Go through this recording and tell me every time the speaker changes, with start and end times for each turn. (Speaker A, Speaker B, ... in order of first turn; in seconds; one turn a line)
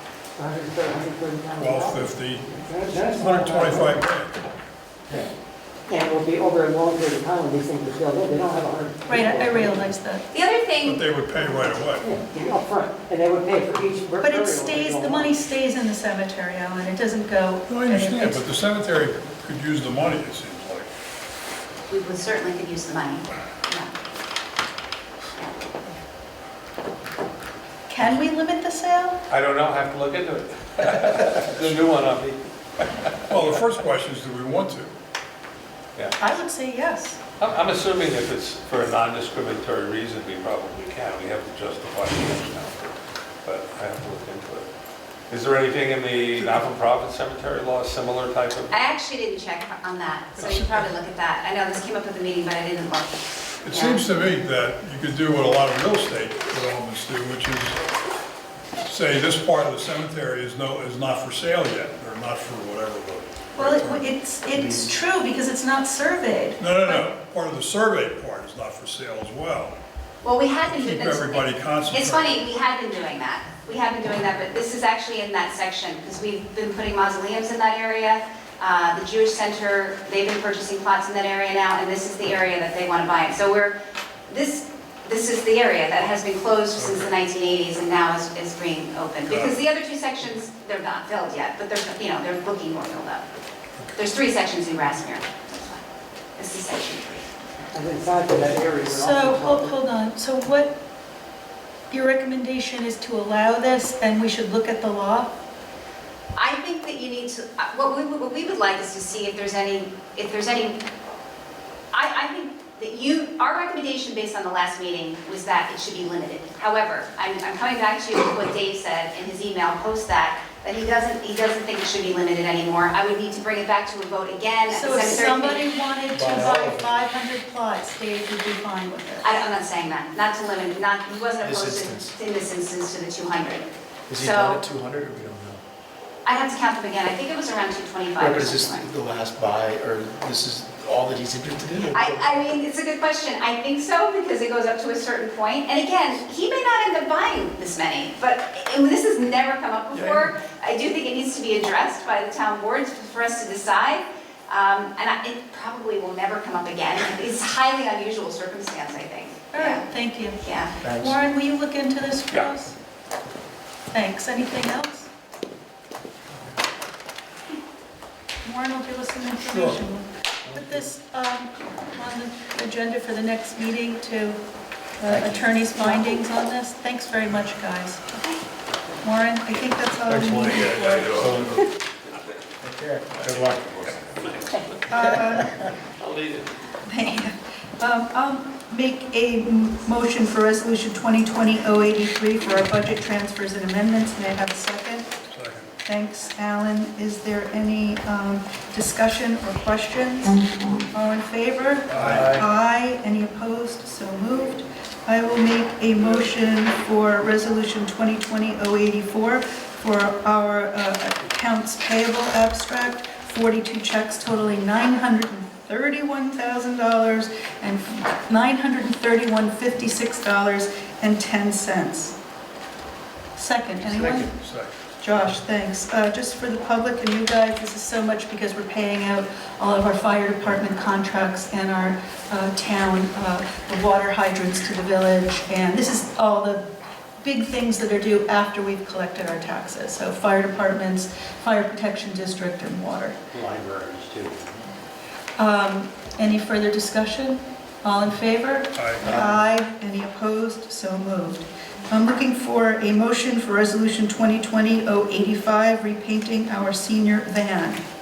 Speaker A: 0.3-4.0
Speaker B: 1.6-2.5
Speaker B: 3.0-4.3
Speaker A: 5.9-9.9
Speaker C: 9.1-10.2
Speaker D: 10.3-11.0
Speaker B: 10.8-12.1
Speaker A: 12.0-15.3
Speaker C: 14.2-18.4
Speaker B: 17.7-20.9
Speaker D: 21.9-23.9
Speaker C: 27.9-29.2
Speaker E: 29.3-33.6
Speaker B: 33.3-34.9
Speaker C: 36.2-37.2
Speaker E: 37.4-44.7
Speaker E: 45.3-48.8
Speaker D: 48.7-53.1
Speaker B: 50.4-50.7
Speaker B: 53.6-57.8
Speaker D: 53.7-54.0
Speaker B: 58.8-64.0
Speaker C: 63.5-67.0
Speaker F: 64.5-64.9
Speaker B: 66.6-69.8
Speaker D: 70.2-83.8
Speaker B: 70.7-72.4
Speaker D: 84.3-93.2
Speaker B: 86.8-87.1
Speaker B: 89.2-89.6
Speaker D: 94.0-95.8
Speaker D: 96.4-97.3
Speaker A: 97.7-99.7
Speaker C: 98.9-100.8
Speaker C: 101.9-105.3
Speaker D: 106.4-110.8
Speaker D: 111.9-125.6
Speaker C: 124.7-129.3
Speaker F: 126.1-126.9
Speaker D: 129.2-134.6
Speaker F: 131.4-132.1
Speaker F: 134.1-135.6
Speaker D: 136.2-138.9
Speaker F: 138.2-142.2
Speaker D: 141.9-159.8
Speaker F: 149.9-150.2
Speaker C: 159.5-162.8
Speaker D: 160.4-160.8
Speaker F: 160.8-161.2
Speaker C: 163.9-165.1
Speaker C: 168.4-174.4
Speaker C: 175.0-178.2
Speaker F: 175.1-175.4
Speaker C: 179.0-181.2
Speaker F: 180.2-181.6
Speaker B: 180.3-181.4
Speaker F: 182.6-183.9
Speaker E: 183.2-185.4
Speaker C: 184.9-185.5
Speaker E: 186.0-186.5
Speaker C: 186.8-195.1
Speaker B: 195.3-195.7
Speaker C: 195.8-222.1
Speaker B: 201.9-202.4
Speaker E: 201.9-202.4
Speaker C: 223.3-224.3
Speaker B: 223.8-224.7
Speaker C: 225.0-236.6
Speaker C: 237.2-243.2
Speaker C: 245.4-257.8
Speaker B: 248.7-249.2